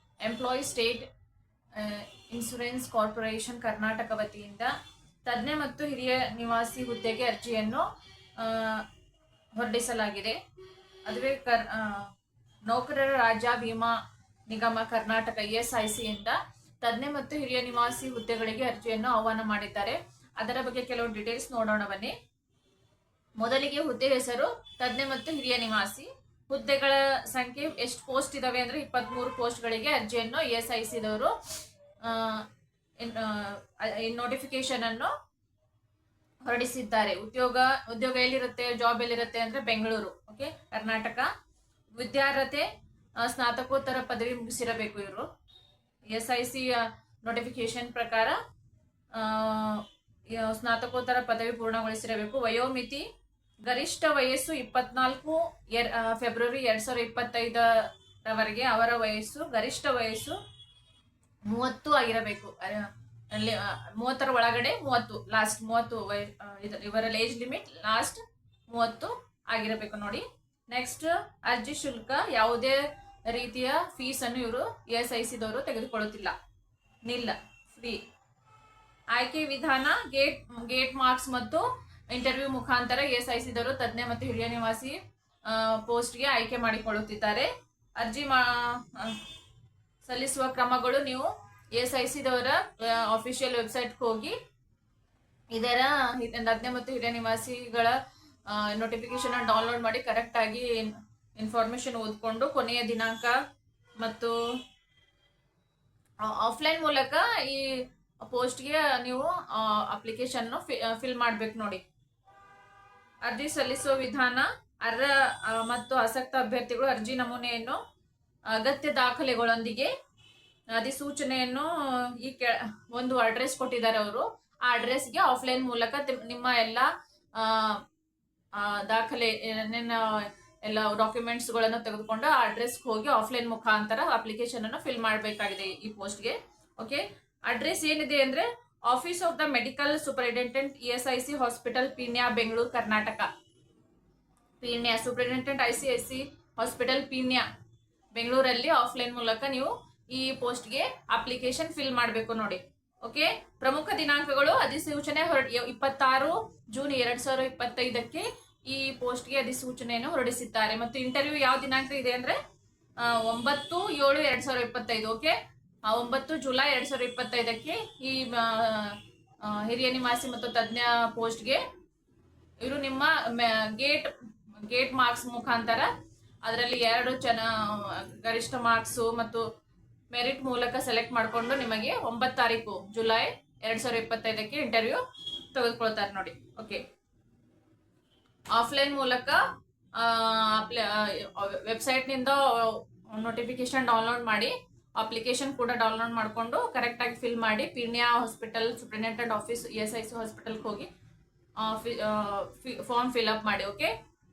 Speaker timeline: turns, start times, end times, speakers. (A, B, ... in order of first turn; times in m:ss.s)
0:00.2-0:01.1 A
0:01.7-0:04.7 A
0:05.2-0:07.8 A
0:08.4-0:08.8 A
0:09.6-0:10.4 A
0:11.0-0:12.1 A
0:12.7-0:13.9 A
0:14.5-0:22.1 A
0:23.4-0:31.3 A
0:32.0-0:32.4 A
0:33.0-0:35.1 A
0:36.4-0:41.3 A
0:41.9-0:42.7 A
0:43.2-0:45.3 A
0:46.1-0:48.4 A
0:49.1-0:53.1 A
0:53.6-1:00.4 A
1:01.5-1:16.3 A
1:17.0-1:18.0 A
1:19.1-1:29.2 A
1:30.0-1:34.4 A
1:35.5-1:37.9 A
1:38.5-1:43.3 A
1:44.0-1:44.3 A
1:46.2-1:51.8 A
1:53.2-1:57.8 A
1:58.5-1:59.9 A
2:00.7-2:07.8 A
2:08.5-2:23.3 A
2:24.6-2:27.4 A
2:28.1-2:42.4 A
2:43.0-2:51.6 A
2:52.6-2:54.1 A
2:54.6-2:55.9 A
2:56.4-2:59.4 A
3:00.1-3:05.0 A
3:05.5-3:06.8 A
3:08.5-3:09.4 A
3:10.0-3:20.9 A
3:21.6-3:23.9 A